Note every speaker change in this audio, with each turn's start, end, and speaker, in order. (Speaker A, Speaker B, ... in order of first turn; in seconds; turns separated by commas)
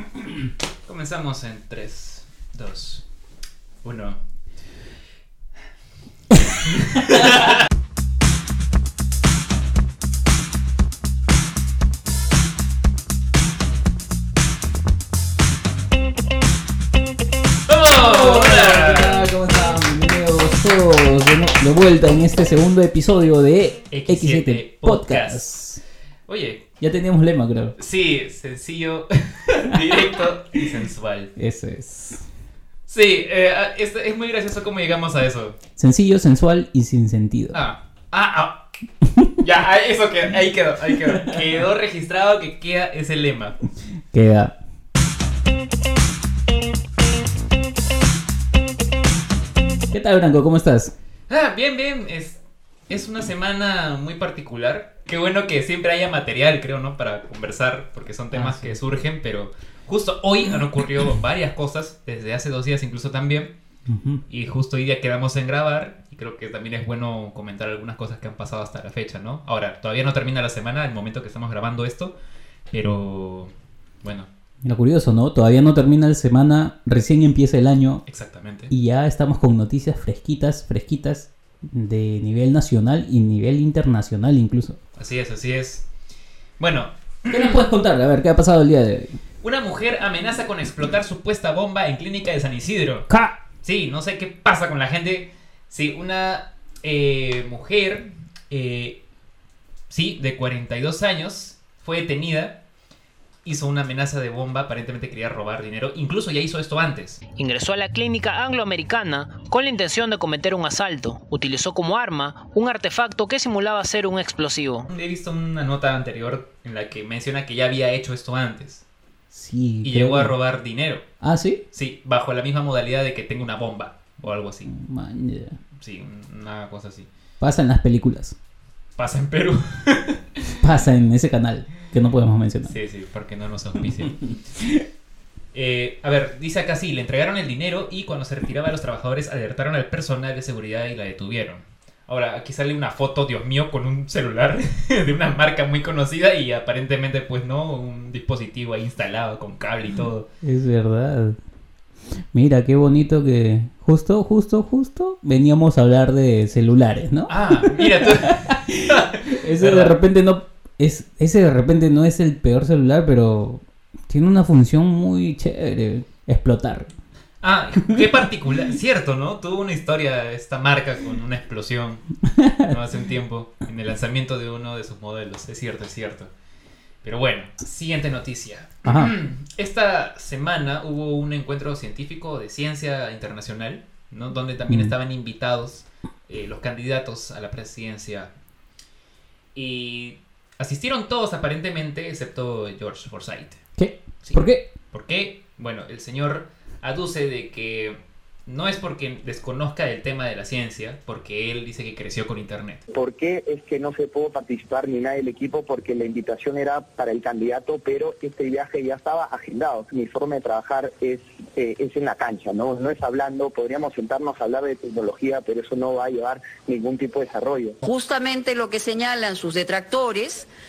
Speaker A: 0.8-3.0, Speaker A: 3.8-4.2, Speaker A: 6.8-7.6, Speaker A: 17.7-19.2, Speaker B: 17.9-25.8, Speaker A: 23.9-25.5, Speaker A: 26.3-26.6, Speaker B: 26.8-27.7, Speaker A: 27.8-31.3, Speaker B: 31.4-32.2, Speaker A: 32.9-35.5, Speaker B: 35.8-37.5, Speaker A: 37.5-38.6, Speaker A: 39.4-43.6, Speaker B: 44.1-44.5, Speaker B: 49.9-50.9, Speaker A: 51.3-63.5, Speaker B: 58.3-58.8, Speaker B: 63.9-64.2, Speaker A: 64.3-72.1, Speaker A: 72.7-73.5, Speaker A: 74.0-74.3, Speaker B: 74.6-78.0, Speaker A: 78.0-78.7, Speaker B: 78.7-84.8, Speaker A: 85.0-85.8, Speaker A: 86.6-87.6, Speaker B: 87.3-89.1, Speaker A: 89.4-93.1, Speaker B: 93.1-93.4, Speaker A: 93.6-99.0, Speaker A: 99.9-102.5, Speaker A: 103.4-107.2, Speaker C: 107.4-114.9, Speaker A: 114.9-118.8, Speaker B: 119.3-120.3, Speaker A: 119.8-121.0, Speaker B: 121.2-121.6, Speaker A: 121.7-124.7, Speaker B: 124.7-125.6, Speaker A: 125.8-127.1, Speaker B: 127.4-128.3, Speaker A: 129.0-130.6, Speaker B: 130.6-132.7, Speaker A: 132.7-134.2, Speaker B: 134.0-134.8, Speaker A: 135.5-150.2, Speaker B: 150.4-151.4, Speaker B: 152.3-166.9, Speaker A: 157.3-160.0, Speaker A: 167.4-172.0, Speaker B: 172.3-172.7, Speaker A: 172.6-176.3, Speaker A: 177.0-188.3, Speaker B: 178.8-179.1, Speaker B: 184.7-184.9, Speaker A: 189.5-193.6, Speaker B: 193.8-194.7, Speaker A: 194.2-202.8, Speaker D: 202.9-217.8, Speaker E: 217.8-220.5